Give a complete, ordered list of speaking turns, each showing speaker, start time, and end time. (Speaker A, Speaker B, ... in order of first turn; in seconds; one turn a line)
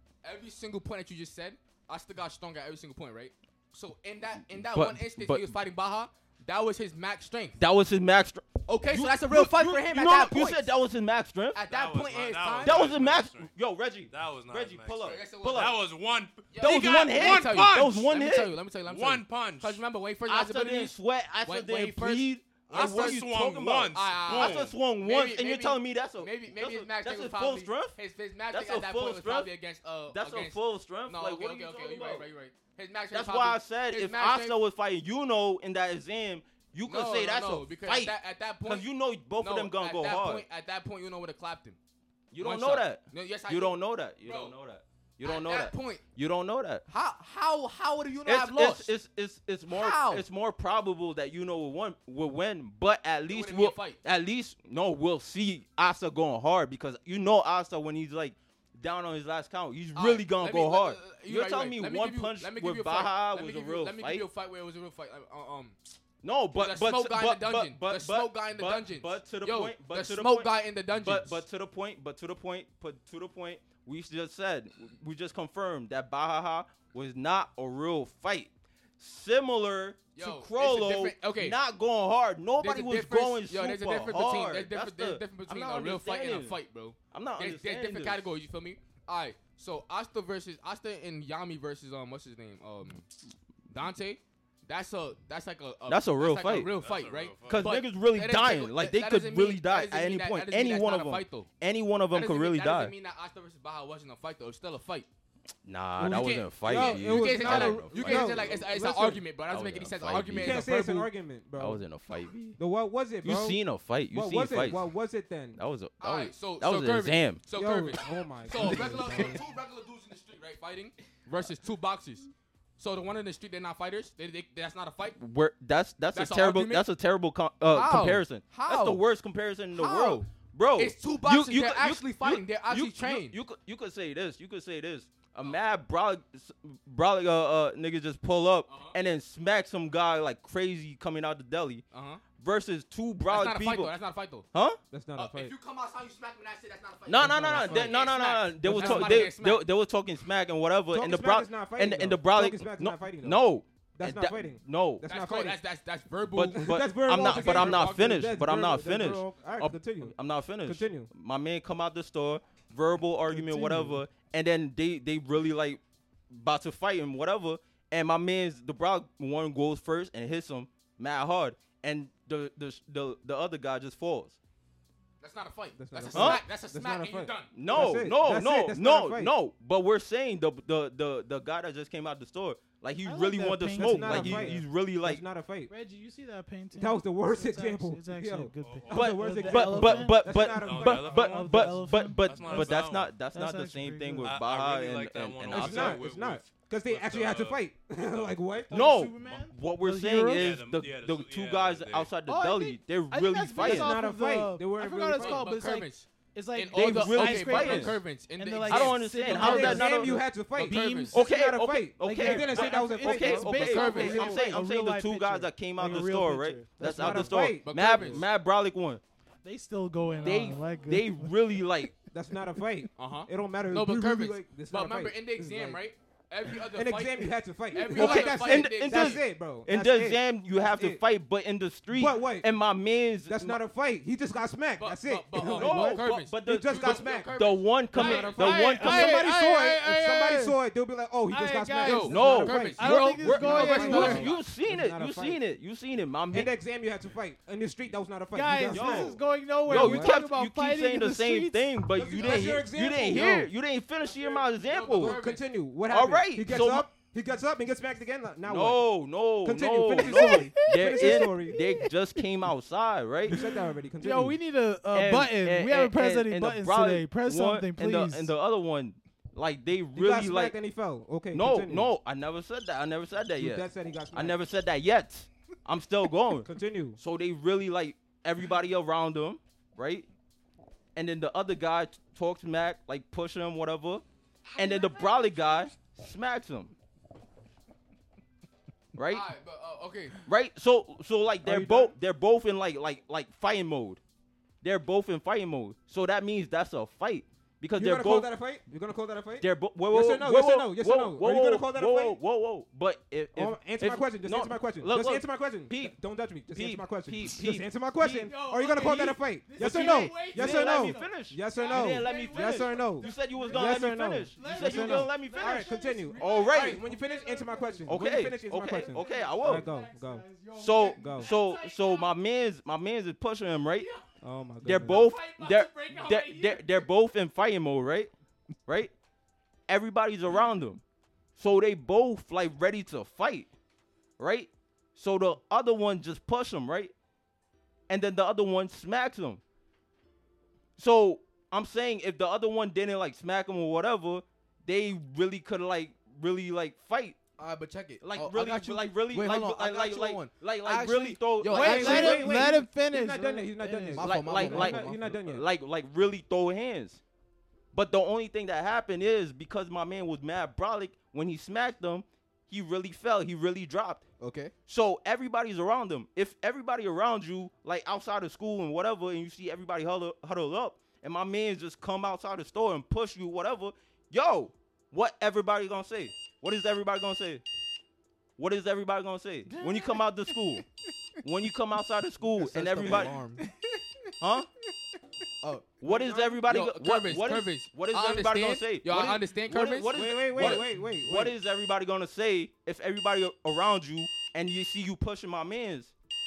Speaker A: 0.2-7.6
Speaker B: 4.6-5.5
Speaker B: 7.6-11.6
Speaker A: 8.7-10.7
Speaker A: 11.5-12.9
Speaker C: 11.7-13.5
Speaker B: 12.6-15.8
Speaker C: 14.1-18.0
Speaker A: 15.0-15.7
Speaker A: 16.5-23.2
Speaker B: 16.6-18.5
Speaker C: 18.9-19.8
Speaker B: 20.3-27.9
Speaker C: 22.7-24.8
Speaker A: 23.9-34.6
Speaker B: 28.5-29.5
Speaker B: 30.1-32.3
Speaker B: 33.1-40.4
Speaker A: 36.9-38.9
Speaker A: 39.4-41.8
Speaker B: 42.3-46.8
Speaker A: 42.4-44.5
Speaker A: 45.2-46.0
Speaker A: 46.9-48.9
Speaker B: 48.2-64.3
Speaker A: 49.7-50.2
Speaker A: 53.3-54.0
Speaker A: 59.9-65.8
Speaker B: 66.2-86.5
Speaker A: 66.5-71.4
Speaker A: 80.1-81.6
Speaker A: 82.6-93.0
Speaker B: 87.1-88.2
Speaker A: 93.7-101.5
Speaker B: 95.9-96.7
Speaker C: 96.8-97.7
Speaker B: 97.5-102.9
Speaker A: 102.1-105.1
Speaker B: 105.6-108.6
Speaker A: 106.0-111.1
Speaker D: 106.6-109.2
Speaker B: 109.5-110.6
Speaker D: 110.3-111.8
Speaker B: 111.6-112.6
Speaker D: 112.6-115.6
Speaker B: 113.2-114.9
Speaker B: 115.5-117.4
Speaker A: 116.0-125.2
Speaker D: 117.5-119.4
Speaker B: 125.2-141.8
Speaker A: 126.1-126.8
Speaker A: 127.7-129.0
Speaker A: 129.7-133.4
Speaker A: 138.7-138.9
Speaker A: 141.9-142.2
Speaker B: 142.4-143.9
Speaker A: 143.3-144.4
Speaker D: 144.9-145.5
Speaker A: 145.2-149.6
Speaker B: 147.1-155.1
Speaker D: 147.2-147.9
Speaker D: 148.6-149.3
Speaker D: 150.9-153.4
Speaker D: 153.9-155.6
Speaker A: 155.1-158.3
Speaker B: 156.3-174.4
Speaker D: 156.5-161.1
Speaker D: 163.3-164.0
Speaker A: 175.2-177.6
Speaker D: 175.8-179.3
Speaker B: 176.1-176.4
Speaker B: 177.5-185.2
Speaker E: 183.0-184.6
Speaker D: 183.7-185.7
Speaker E: 185.7-192.8
Speaker D: 186.7-191.2
Speaker C: 188.6-189.4
Speaker B: 188.9-196.1
Speaker C: 190.3-193.2
Speaker E: 193.3-194.3
Speaker C: 194.2-198.3
Speaker D: 195.5-199.0
Speaker E: 198.7-200.5
Speaker B: 198.7-203.9
Speaker C: 200.3-202.1
Speaker E: 202.3-211.2
Speaker D: 203.6-205.5
Speaker A: 205.2-209.7
Speaker B: 206.7-208.0
Speaker B: 208.7-210.1
Speaker D: 209.3-214.6
Speaker A: 210.6-211.2
Speaker B: 211.1-219.0
Speaker E: 212.0-217.2
Speaker A: 213.7-214.2
Speaker D: 216.8-218.2
Speaker A: 217.4-218.2
Speaker E: 219.4-221.3
Speaker B: 220.2-221.9
Speaker D: 222.1-225.8
Speaker A: 222.9-229.2
Speaker D: 226.7-231.0
Speaker B: 227.9-233.6
Speaker D: 231.9-232.5
Speaker D: 233.3-237.3
Speaker A: 234.8-238.5
Speaker B: 235.4-239.2
Speaker D: 237.9-245.4
Speaker E: 238.0-240.6
Speaker E: 241.3-244.2
Speaker A: 241.8-244.4
Speaker B: 242.1-246.5
Speaker D: 246.3-250.1
Speaker E: 248.3-251.7
Speaker B: 248.7-255.2
Speaker D: 251.9-253.4
Speaker E: 253.1-253.4
Speaker A: 254.0-255.4
Speaker D: 254.9-258.8
Speaker B: 255.9-256.9
Speaker B: 258.4-263.4
Speaker D: 259.4-261.6
Speaker E: 259.9-262.2
Speaker D: 263.2-264.4
Speaker E: 263.3-268.3
Speaker B: 264.9-270.5
Speaker D: 269.9-271.9
Speaker B: 271.3-280.1
Speaker D: 273.4-274.4
Speaker D: 276.4-277.0
Speaker B: 280.9-284.0
Speaker B: 284.6-286.7
Speaker B: 288.9-289.3
Speaker A: 289.1-290.2
Speaker B: 290.2-294.0
Speaker D: 291.4-291.9
Speaker B: 294.6-298.3
Speaker D: 297.8-302.2
Speaker B: 299.4-305.9
Speaker D: 303.3-320.2
Speaker B: 306.5-308.3
Speaker E: 308.2-322.1
Speaker B: 309.6-316.8
Speaker B: 317.9-319.6
Speaker B: 320.5-323.9
Speaker D: 320.9-321.3
Speaker D: 324.2-325.1
Speaker B: 324.6-328.1
Speaker E: 324.8-326.9
Speaker B: 328.7-328.9
Speaker B: 329.7-330.8
Speaker B: 331.4-333.5
Speaker B: 334.2-336.9
Speaker B: 337.9-339.4
Speaker B: 340.8-347.2
Speaker A: 347.4-352.2
Speaker B: 348.0-352.2
Speaker E: 351.5-354.1
Speaker D: 351.5-355.4
Speaker A: 353.9-355.1
Speaker B: 354.0-357.0
Speaker B: 357.7-364.0
Speaker A: 364.2-364.5
Speaker B: 364.7-377.4
Speaker B: 378.4-380.6
Speaker E: 379.5-380.4
Speaker B: 381.2-383.1
Speaker D: 382.4-383.3
Speaker A: 382.4-383.4
Speaker B: 384.2-384.5
Speaker A: 385.4-390.6
Speaker B: 385.8-395.9
Speaker D: 389.9-391.3